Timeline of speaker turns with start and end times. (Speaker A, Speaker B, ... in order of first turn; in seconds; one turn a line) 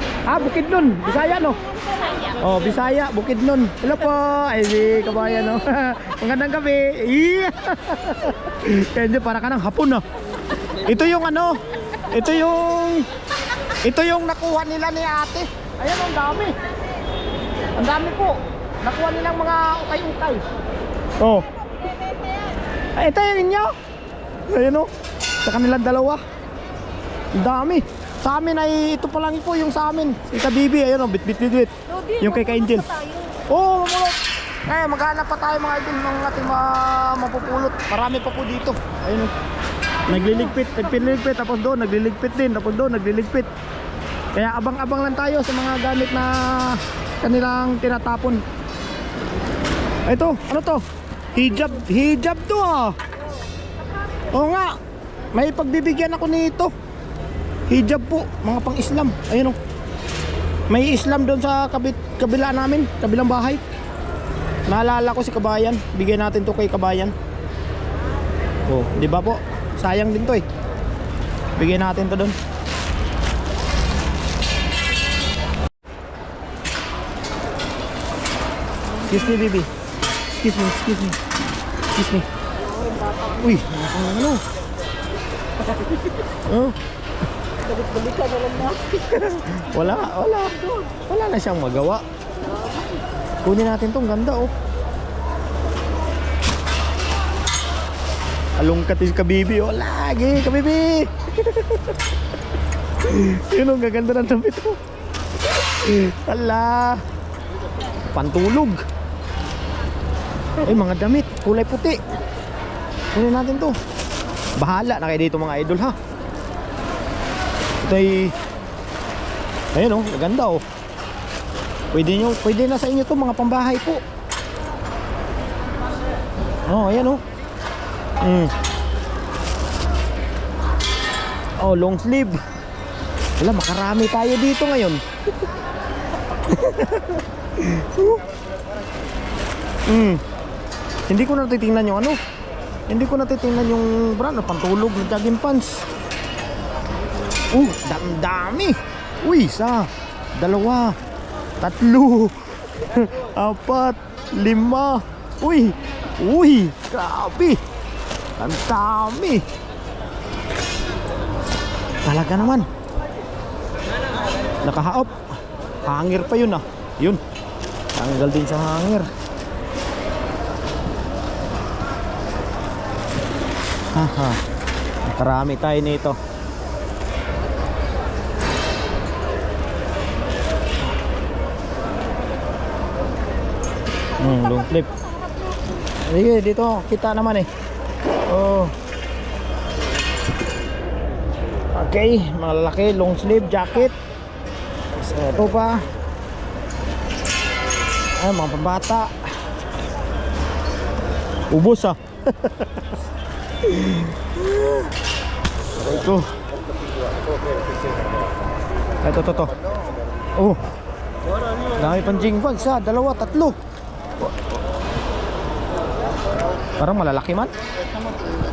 Speaker A: 0.2-1.6
Speaker B: 2.0-2.3
Speaker A: 2.4-10.0
Speaker A: 10.8-11.6
Speaker A: 12.1-13.1
Speaker A: 13.8-16.5
Speaker A: 17.8-20.4
Speaker A: 21.2-21.5
Speaker A: 22.9-23.7
Speaker A: 24.5-24.9
Speaker A: 25.4-26.2
Speaker A: 27.3-32.9
Speaker B: 31.9-33.4
Speaker A: 33.5-39.3
Speaker A: 40.1-43.5
Speaker A: 44.3-48.4
Speaker A: 50.1-50.8
Speaker A: 51.3-52.9
Speaker A: 54.3-54.7
Speaker A: 55.4-56.7
Speaker A: 57.7-59.5
Speaker A: 60.7-63.6
Speaker A: 64.7-67.1
Speaker A: 68.7-70.4
Speaker A: 71.6-72.3
Speaker A: 79.1-79.7
Speaker A: 80.3-81.2
Speaker A: 81.9-82.2
Speaker B: 82.8-83.3
Speaker A: 83.4-84.4
Speaker A: 86.5-86.8
Speaker B: 87.6-89.0
Speaker A: 88.9-92.0
Speaker B: 92.4-92.8
Speaker A: 93.4-94.5
Speaker A: 98.6-102.0
Speaker A: 103.0-104.8
Speaker A: 105.5-107.0
Speaker A: 108.1-108.8
Speaker A: 110.6-112.0
Speaker A: 113.1-113.7
Speaker A: 114.6-116.0
Speaker A: 117.8-118.3
Speaker A: 119.7-120.6
Speaker A: 121.9-124.0
Speaker A: 126.7-127.2
Speaker A: 128.2-128.5
Speaker A: 131.6-132.4
Speaker A: 133.4-135.0
Speaker A: 136.5-138.2
Speaker A: 139.9-140.2
Speaker A: 141.1-142.2
Speaker A: 142.9-145.8
Speaker A: 147.5-150.9
Speaker A: 151.6-157.6
Speaker A: 158.4-159.4
Speaker A: 162.0-162.7
Speaker A: 164.6-165.2
Speaker A: 165.8-167.2
Speaker A: 167.9-169.1
Speaker A: 173.9-174.4
Speaker A: 175.1-176.2
Speaker A: 184.2-184.9
Speaker B: 185.2-185.5
Speaker A: 186.0-187.5
Speaker A: 188.3-188.7
Speaker A: 191.7-193.9
Speaker A: 195.0-195.8
Speaker A: 198.2-199.1
Speaker A: 201.5-202.7
Speaker A: 203.6-204.4
Speaker A: 205.8-206.3
Speaker A: 209.0-209.5
Speaker A: 211.8-213.6
Speaker A: 216.8-217.5